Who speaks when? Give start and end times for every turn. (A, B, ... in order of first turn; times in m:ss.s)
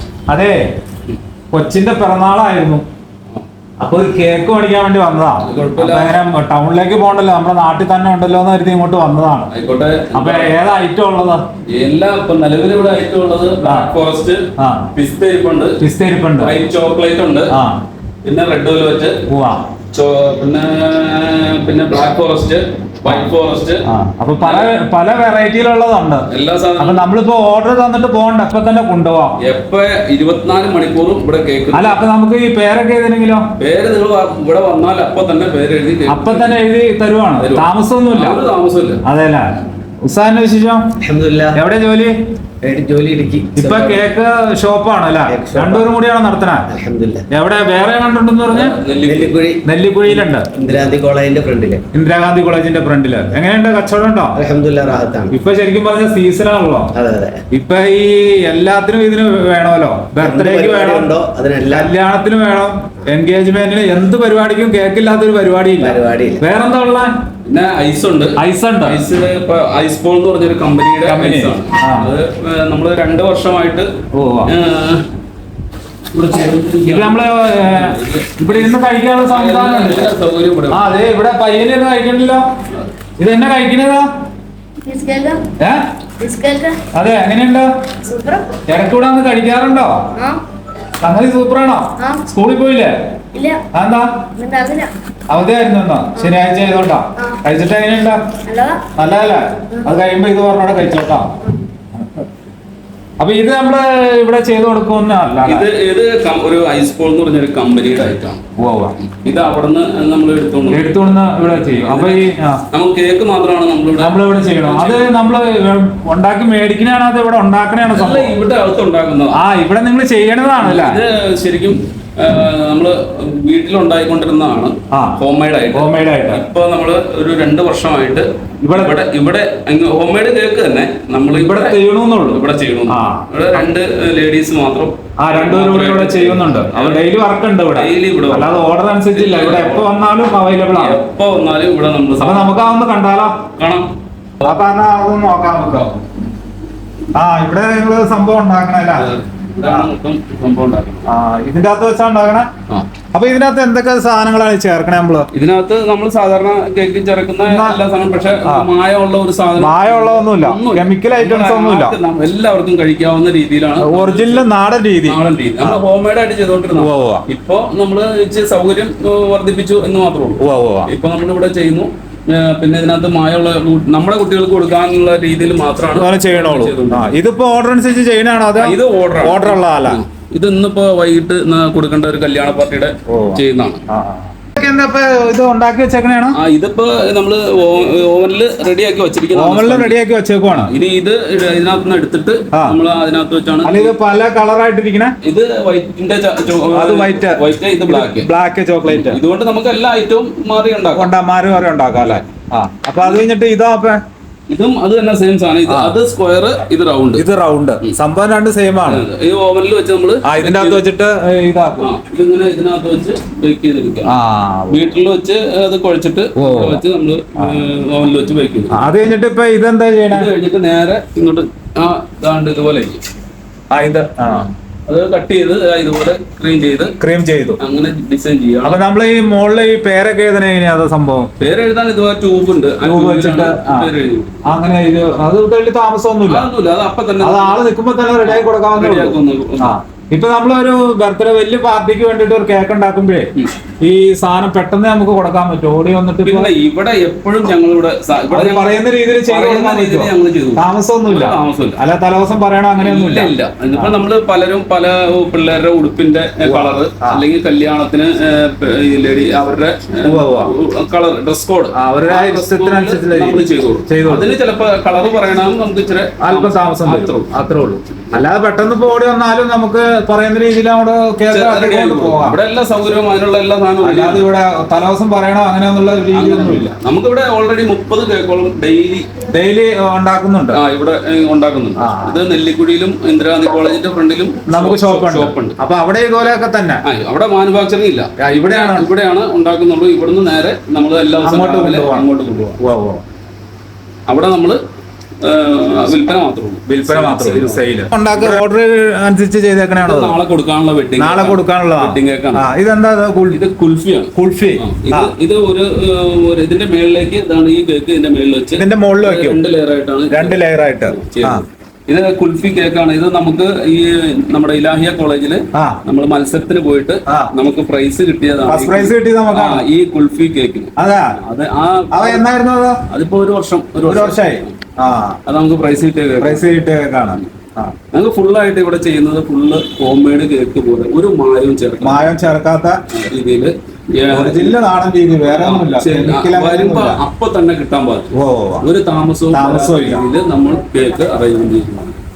0:00.3-0:00.6 A
0:01.5-0:02.8 A
0:03.8-0:09.5 A
0:05.4-0:06.1 B
0:09.5-0:10.6 B
0:10.1-0:11.4 A
0:11.7-0:15.8 B
0:13.6-0:14.0 A
0:14.6-0:14.9 A
0:15.8-0:16.6 A
0:16.4-0:17.5 B
0:17.5-0:17.8 A
0:18.2-0:19.2 B
0:19.3-0:19.7 A
0:19.9-0:23.8 B
0:23.0-0:23.3 A
0:23.8-0:26.2 A
0:24.4-0:24.7 B
0:26.3-0:27.0 B
0:26.8-0:29.4 A
0:29.4-0:32.0 B
0:31.7-0:33.4 A
0:33.6-0:36.6 B
0:36.1-0:38.4 A
0:37.4-0:39.0 B
0:39.0-0:40.9 A
0:41.0-0:41.6 C
0:41.5-0:42.1 A
0:42.6-0:44.0 C
0:43.6-0:46.7 A
0:45.3-0:45.9 C
0:46.7-0:47.2 C
0:47.3-0:48.8 A
0:48.5-0:49.4 B
0:49.0-0:51.8 C
0:49.6-0:50.5 A
0:51.9-0:54.4 A
0:54.3-0:55.4 C
0:55.3-0:56.9 A
0:56.9-0:57.4 C
0:57.5-1:01.1 A
1:00.2-1:01.9 C
1:01.7-1:07.1 A
1:05.8-1:06.4 C
1:07.4-1:13.9 B
1:08.4-1:09.1 A
1:11.0-1:12.1 A
1:14.1-1:14.5 A
1:14.4-1:15.0 B
1:16.1-1:20.9 B
1:16.8-1:20.1 A
1:20.7-1:22.4 A
1:23.2-1:24.1 A
1:24.8-1:25.4 D
1:26.2-1:26.8 D
1:26.9-1:27.7 A
1:28.0-1:28.6 D
1:28.7-1:30.0 A
1:30.2-1:30.4 D
1:31.0-1:32.9 A
1:32.0-1:32.2 D
1:33.3-1:33.6 D
1:33.7-1:34.2 A
1:34.4-1:34.9 D
1:35.3-1:38.2 A
1:36.2-1:36.4 D
1:38.4-1:38.9 D
1:38.9-1:41.3 A
1:42.0-1:42.2 A
1:43.2-1:45.7 A
1:45.4-1:48.4 B
1:48.6-1:48.9 A
1:49.0-1:55.1 B
1:50.7-1:52.6 A
1:54.0-1:58.4 A
1:57.9-1:59.4 B
1:59.3-2:01.0 A
2:00.6-2:17.1 B
2:04.9-2:05.2 A
2:05.7-2:06.5 A
2:08.6-2:09.0 A
2:11.3-2:13.2 A
2:15.2-2:21.0 A
2:17.7-2:18.6 B
2:19.1-2:19.9 B
2:20.7-2:22.6 B
2:22.2-2:23.4 A
2:23.6-2:24.6 B
2:24.4-2:25.9 A
2:27.1-2:29.1 A
2:28.9-2:31.0 B
2:29.6-2:29.9 A
2:31.1-2:32.5 A
2:33.1-2:35.3 A
2:35.3-2:44.5 B
2:37.4-2:37.8 A
2:38.4-2:38.7 A
2:39.6-2:42.0 A
2:43.8-2:45.8 A
2:45.0-2:57.1 B
2:46.7-2:47.2 A
2:50.4-2:50.9 A
2:55.9-3:00.0 A
2:58.6-3:03.8 B
3:03.1-3:06.4 A
3:06.3-3:10.0 B
3:09.3-3:10.7 A
3:10.7-3:14.0 B
3:13.6-3:15.2 A
3:15.2-3:18.3 B
3:16.7-3:19.2 A
3:18.8-3:21.1 B
3:20.9-3:24.0 A
3:21.9-3:22.2 B
3:24.5-3:27.2 B
3:25.6-3:26.0 A
3:27.1-3:29.0 A
3:28.8-3:30.8 B
3:30.2-3:31.9 A
3:31.8-3:34.1 B
3:34.0-3:34.9 A
3:34.7-3:38.9 B
3:36.4-3:36.8 A
3:38.7-3:40.3 A
3:40.1-3:43.0 B
3:43.7-3:44.5 A
3:44.3-3:47.0 B
3:47.0-3:47.6 A
3:47.6-3:48.8 B
3:48.6-3:51.3 A
3:51.4-3:54.4 B
3:52.8-3:53.9 A
3:54.4-3:56.5 A
3:56.3-3:57.7 B
3:57.2-4:03.3 A
3:58.2-3:59.7 B
4:03.8-4:06.5 A
4:06.2-4:11.8 B
4:08.3-4:13.9 A
4:12.8-4:27.3 B
4:16.4-4:17.2 A
4:20.0-4:20.5 A
4:21.7-4:24.3 A
4:26.2-4:32.4 A
4:31.3-4:34.2 B
4:33.8-4:36.7 A
4:36.1-4:39.1 B
4:39.3-4:40.6 A
4:40.5-4:45.6 B
4:41.8-4:42.2 A
4:44.5-4:46.8 A
4:46.8-4:52.6 B
4:48.2-4:48.9 A
4:51.2-4:52.1 A
4:52.6-4:53.0 A
4:54.1-4:54.6 B
4:55.2-4:57.7 B
4:56.7-5:00.2 A
4:59.8-5:02.4 B
5:01.0-5:03.4 A
5:03.3-5:22.2 B
5:04.1-5:05.1 A
5:08.5-5:09.4 A
5:10.1-5:11.4 A
5:15.5-5:15.8 A
5:18.5-5:19.6 A
5:20.8-5:21.1 A
5:21.9-5:22.8 A
5:22.9-5:24.6 B
5:23.8-5:25.2 A
5:25.2-5:26.5 B
5:26.2-5:27.7 A
5:27.9-5:32.1 B
5:31.8-5:32.8 A
5:32.9-5:34.6 B
5:34.1-5:37.0 A
5:35.2-5:42.0 B
5:38.1-5:38.6 A
5:39.3-5:40.0 A